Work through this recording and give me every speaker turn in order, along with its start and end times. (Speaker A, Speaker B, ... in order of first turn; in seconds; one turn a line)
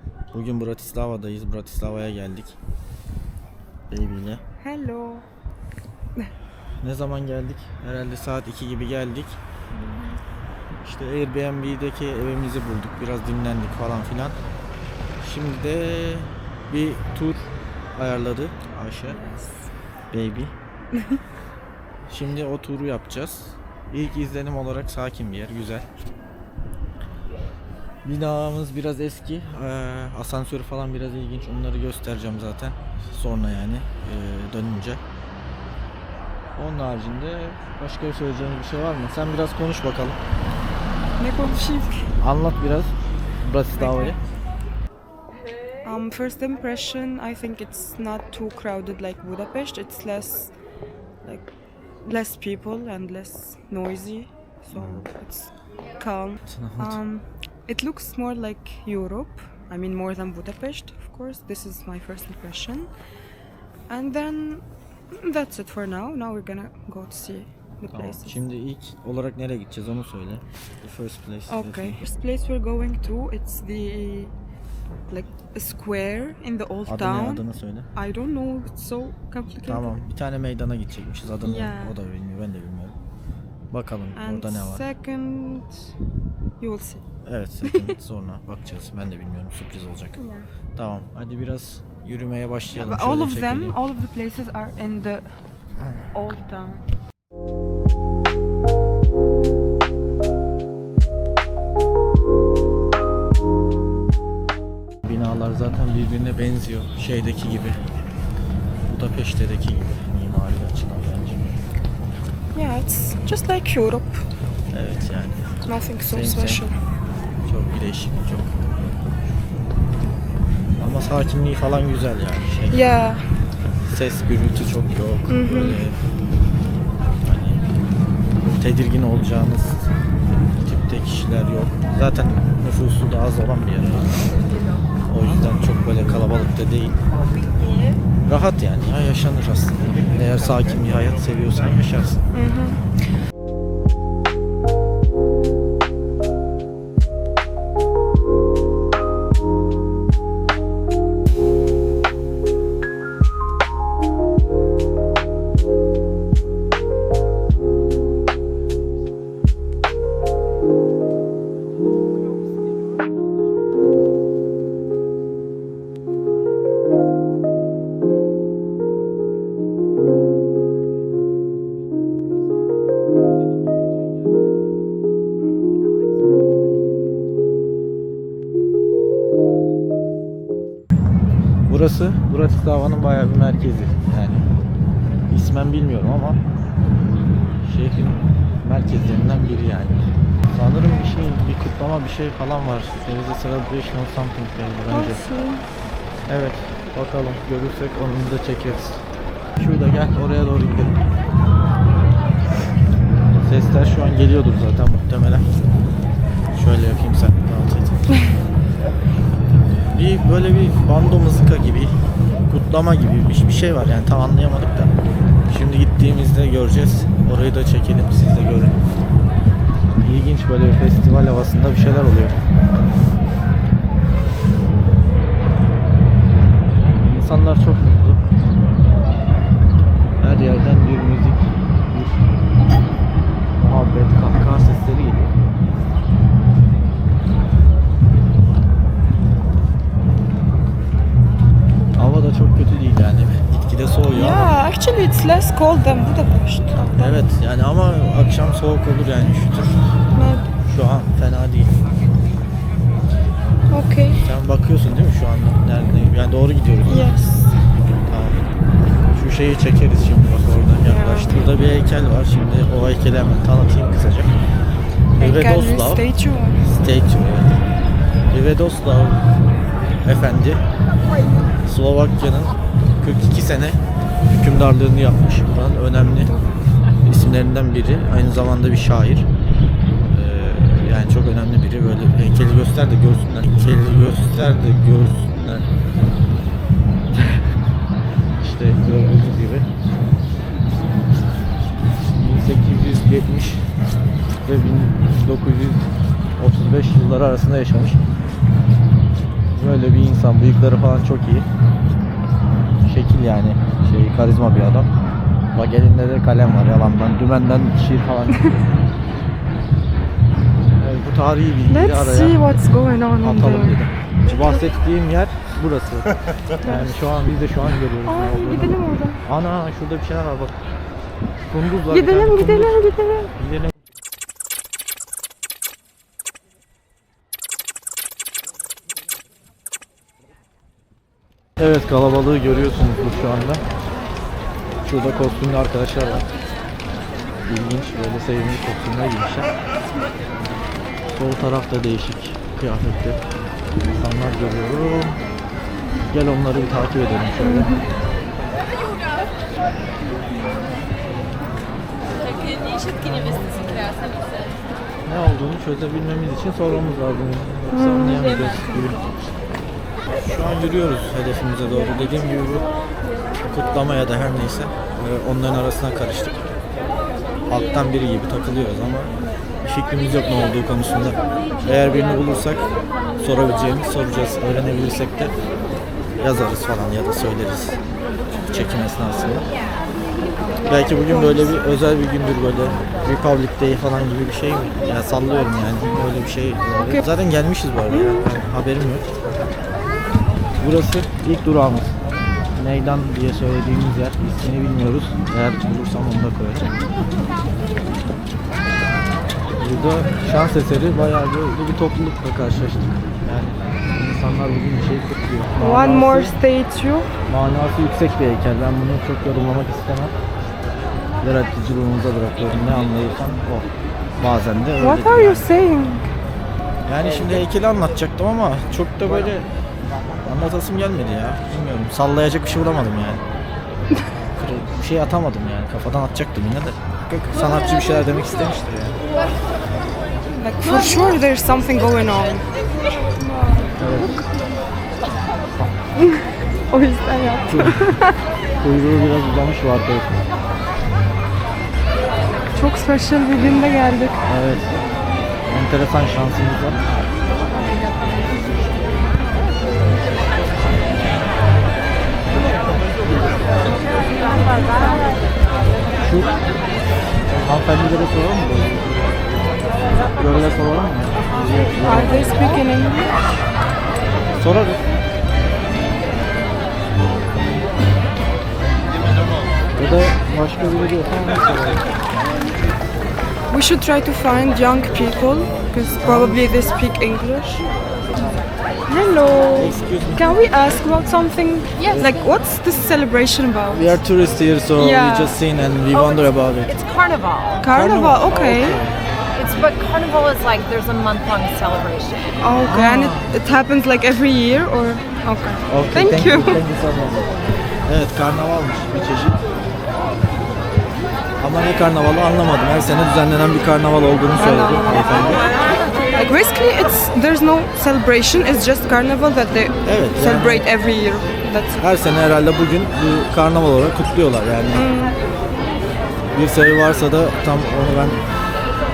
Speaker A: 0.3-2.6
Speaker A: 3.9-4.4
Speaker B: 4.6-5.2
Speaker A: 6.8-9.4
Speaker B: 9.7-10.1
Speaker A: 10.8-14.4
Speaker A: 15.2-19.2
Speaker B: 19.1-19.7
Speaker A: 20.1-20.5
Speaker A: 22.1-25.9
Speaker A: 28.0-35.0
Speaker A: 36.5-40.2
Speaker B: 41.2-42.1
Speaker A: 42.2-44.2
Speaker B: 43.8-44.1
Speaker B: 45.8-50.5
Speaker B: 52.0-62.9
Speaker A: 54.7-55.0
Speaker A: 56.5-57.0
Speaker B: 63.9-68.3
Speaker A: 67.9-72.0
Speaker B: 71.5-74.3
Speaker B: 75.1-80.0
Speaker A: 76.9-77.9
Speaker A: 79.6-83.0
Speaker B: 81.4-81.9
Speaker A: 83.7-84.8
Speaker B: 84.2-85.9
Speaker B: 86.6-87.0
Speaker A: 87.2-90.2
Speaker B: 87.6-87.9
Speaker B: 90.2-90.5
Speaker A: 90.7-93.8
Speaker B: 92.7-95.2
Speaker B: 96.1-96.8
Speaker A: 105.0-107.8
Speaker A: 108.9-111.5
Speaker B: 112.5-114.2
Speaker A: 114.7-116.6
Speaker B: 115.7-116.7
Speaker A: 117.5-118.9
Speaker A: 120.8-122.8
Speaker B: 122.7-123.2
Speaker A: 123.9-126.0
Speaker B: 125.3-125.8
Speaker A: 127.2-127.6
Speaker A: 128.6-129.9
Speaker A: 130.6-134.3
Speaker A: 135.1-137.0
Speaker A: 138.2-142.2
Speaker B: 142.3-142.8
Speaker A: 173.6-173.9
Speaker A: 181.7-184.5
Speaker A: 185.3-186.4
Speaker A: 187.6-195.2
Speaker B: 194.9-195.7
Speaker A: 196.3-199.0
Speaker A: 199.6-201.0
Speaker A: 203.4-205.5
Speaker A: 206.5-208.3
Speaker A: 209.8-211.9
Speaker A: 212.5-214.9
Speaker A: 215.5-218.8
Speaker A: 220.0-222.4
Speaker A: 226.8-228.3
Speaker A: 230.2-232.2
Speaker A: 233.6-235.3
Speaker A: 241.9-244.5
Speaker B: 244.1-247.2
Speaker A: 246.9-249.9
Speaker B: 250.1-250.5
Speaker A: 250.6-251.7
Speaker B: 253.7-254.2
Speaker A: 254.2-257.1
Speaker B: 256.8-257.6
Speaker A: 258.1-258.4
Speaker A: 259.1-264.3
Speaker B: 260.8-261.4
Speaker B: 265.2-266.6
Speaker A: 265.2-266.0
Speaker A: 266.6-267.6
Speaker A: 268.3-269.3
Speaker A: 270.0-270.6
Speaker A: 271.6-276.3
Speaker A: 277.0-279.3
Speaker A: 280.1-285.7
Speaker A: 288.4-289.7
Speaker A: 292.2-293.7
Speaker A: 294.4-298.0
Speaker A: 299.5-301.5
Speaker A: 302.8-304.9
Speaker A: 305.5-308.8
Speaker A: 310.8-312.4
Speaker B: 311.7-313.8
Speaker A: 313.2-320.6
Speaker B: 316.6-317.0
Speaker B: 318.1-319.2
Speaker A: 321.5-322.8
Speaker B: 321.9-323.3
Speaker A: 323.4-323.7
Speaker A: 331.6-333.6
Speaker A: 334.8-336.3
Speaker A: 337.4-339.5
Speaker A: 341.1-343.2
Speaker A: 343.8-345.2
Speaker A: 346.0-347.8
Speaker B: 347.4-347.9
Speaker A: 353.0-353.5
Speaker A: 355.1-359.0
Speaker B: 357.7-358.3
Speaker A: 360.2-362.7
Speaker A: 363.4-366.5
Speaker A: 367.5-375.4
Speaker A: 376.2-377.8
Speaker A: 378.4-379.5
Speaker A: 380.6-389.1
Speaker B: 381.0-381.6
Speaker B: 386.8-387.0
Speaker B: 387.9-388.2
Speaker A: 390.6-392.0
Speaker A: 392.5-396.7
Speaker A: 399.6-406.4
Speaker B: 405.6-407.1
Speaker A: 407.3-410.1
Speaker A: 411.2-413.7
Speaker A: 414.2-415.5
Speaker B: 414.8-416.1
Speaker A: 416.9-419.5
Speaker A: 420.2-423.2
Speaker A: 424.4-429.0
Speaker B: 430.4-432.5
Speaker B: 433.0-433.8
Speaker A: 433.8-434.2
Speaker B: 435.9-438.2
Speaker A: 437.5-438.0
Speaker A: 438.6-440.2
Speaker B: 442.5-444.2
Speaker A: 444.2-444.8
Speaker A: 445.5-446.8
Speaker A: 456.0-456.3
Speaker A: 457.3-459.1
Speaker A: 460.0-462.6
Speaker B: 461.8-463.4
Speaker A: 464.4-464.8
Speaker A: 469.8-471.9
Speaker B: 473.5-477.6
Speaker A: 475.9-476.6
Speaker B: 478.9-484.0
Speaker A: 479.6-480.4
Speaker A: 481.9-482.1
Speaker A: 483.7-486.8
Speaker B: 484.8-485.4
Speaker C: 486.7-487.6
Speaker B: 487.6-488.8
Speaker A: 487.7-489.0
Speaker C: 489.4-492.2
Speaker B: 492.4-496.6
Speaker A: 492.6-493.3
Speaker A: 495.7-499.4
Speaker A: 501.4-505.5
Speaker B: 504.4-505.5
Speaker B: 506.1-511.8
Speaker A: 509.8-510.6
Speaker A: 511.8-514.9
Speaker B: 514.7-515.2
Speaker A: 516.3-518.2